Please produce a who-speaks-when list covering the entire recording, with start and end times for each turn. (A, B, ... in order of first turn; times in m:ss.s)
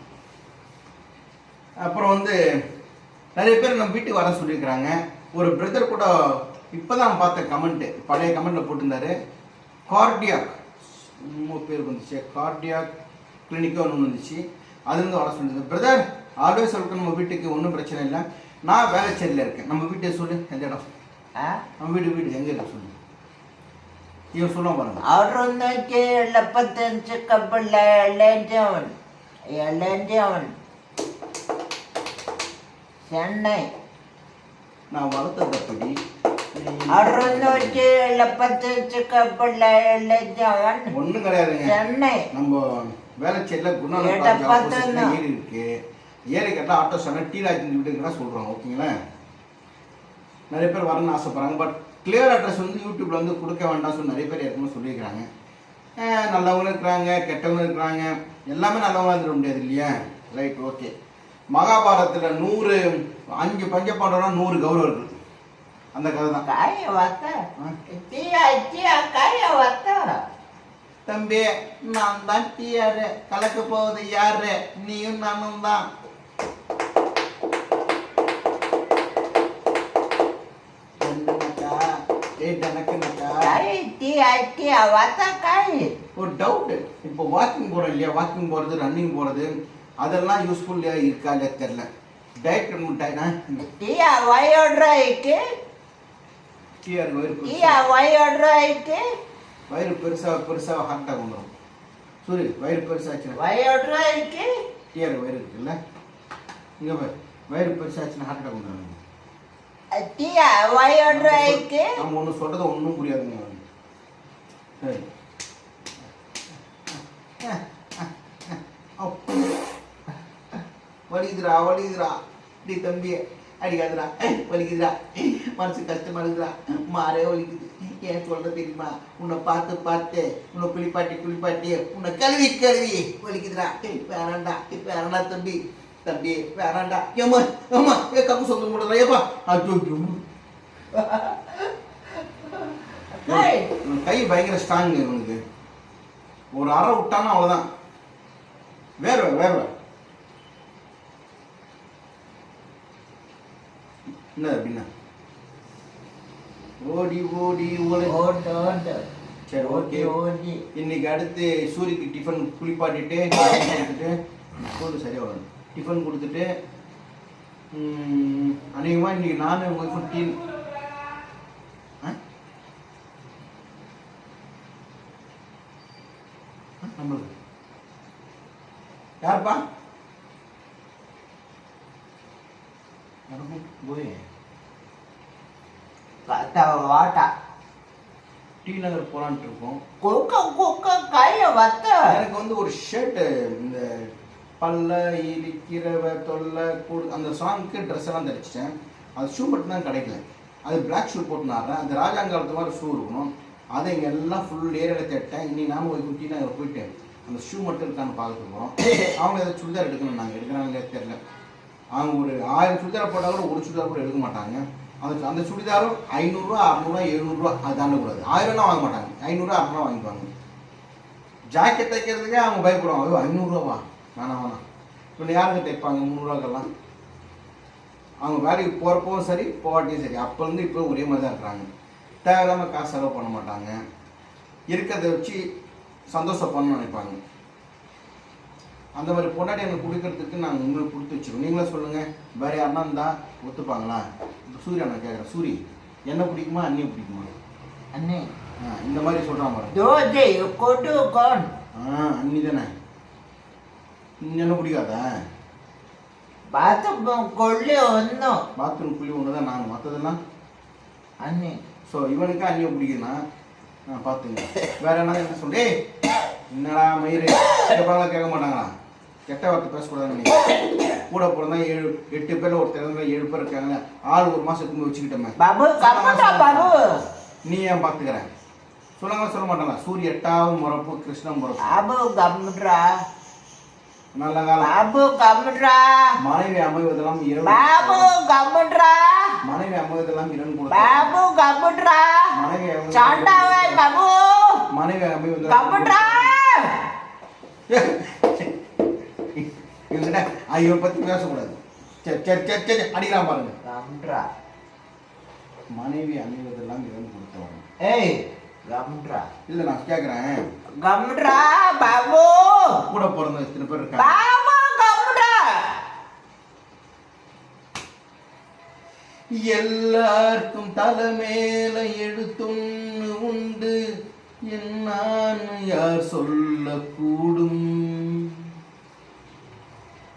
0:01.8-0:02.4 A
0:03.4-0:09.1 A
0:09.9-0:12.9 A
0:13.5-0:20.8 A
0:21.8-0:22.9 A
0:24.3-0:25.0 A
0:25.0-0:28.9 B
0:29.6-0:30.5 B
0:33.1-0:33.7 B
0:34.9-0:35.9 A
0:36.5-0:37.8 A
0:36.9-0:40.9 B
0:40.9-0:41.7 A
0:41.6-0:42.2 B
0:42.3-0:45.7 A
0:43.9-0:45.1 B
0:46.3-0:48.9 A
0:50.5-0:55.3 A
0:56.0-1:00.9 A
1:01.5-1:05.1 A
1:05.9-1:06.4 A
1:06.4-1:07.4 B
1:07.9-1:10.1 B
1:11.1-1:15.8 A
1:21.0-1:21.8 A
1:22.4-1:23.6 A
1:23.4-1:25.9 B
1:26.2-1:31.9 A
1:32.4-1:33.6 A
1:33.6-1:35.4 B
1:36.8-1:37.8 A
1:37.4-1:39.0 B
1:39.7-1:41.5 A
1:42.2-1:43.4 A
1:43.3-1:44.5 B
1:44.9-1:45.8 A
1:46.8-1:49.0 A
1:49.9-1:51.9 B
1:51.1-1:53.6 A
1:54.8-1:55.1 A
1:57.4-1:59.5 A
2:01.1-2:20.2 A
2:20.9-2:23.7 B
2:23.3-2:25.4 A
2:26.5-2:27.6 A
2:29.0-2:29.7 A
2:34.4-2:34.9 A
2:36.8-2:38.2 A
2:38.0-2:39.0 B
2:39.5-2:40.1 A
2:39.6-2:40.6 B
2:40.7-2:46.5 A
2:47.7-2:50.4 A
2:56.8-2:57.3 A
2:59.2-2:59.6 A
3:03.3-3:04.2 A
3:06.3-3:07.3 B
3:08.6-3:09.8 A
3:10.0-3:12.1 B
3:12.1-3:31.2 A
3:31.9-3:40.3 A
3:41.5-3:44.6 A
3:45.2-3:46.7 A
3:48.2-3:51.7 A
3:52.2-3:53.8 A
3:54.7-3:55.4 A
3:56.1-3:57.2 A
3:59.0-4:07.3 A
4:07.9-4:08.2 B
4:08.6-4:09.7 A
4:09.7-4:11.5 B
4:11.7-4:12.7 A
4:14.2-4:15.1 A
4:16.5-4:18.4 B
4:18.6-4:20.2 A
4:21.2-4:21.5 B
4:21.8-4:23.2 A
4:23.9-4:25.7 A
4:26.5-4:28.7 A
4:29.3-4:30.3 A
4:31.1-4:38.3 A
4:35.4-4:36.9 B
4:39.0-4:41.8 A
4:41.6-4:42.9 B
4:44.1-4:44.7 A
4:44.6-4:46.1 B
4:46.2-4:48.1 A
4:47.4-4:49.3 B
4:49.4-4:51.2 A
4:50.7-4:52.3 B
4:52.3-4:53.8 A
4:52.9-4:54.6 B
4:54.7-4:56.3 A
4:55.4-4:56.8 B
4:57.7-4:58.5 A
4:59.3-5:03.6 A
5:03.6-5:04.3 B
5:05.7-5:07.6 A
5:07.8-5:09.2 B
5:09.5-5:10.4 A
5:10.8-5:12.8 B
5:12.9-5:14.1 A
5:14.0-5:15.8 B
5:19.3-5:23.8 A
5:24.5-5:28.5 A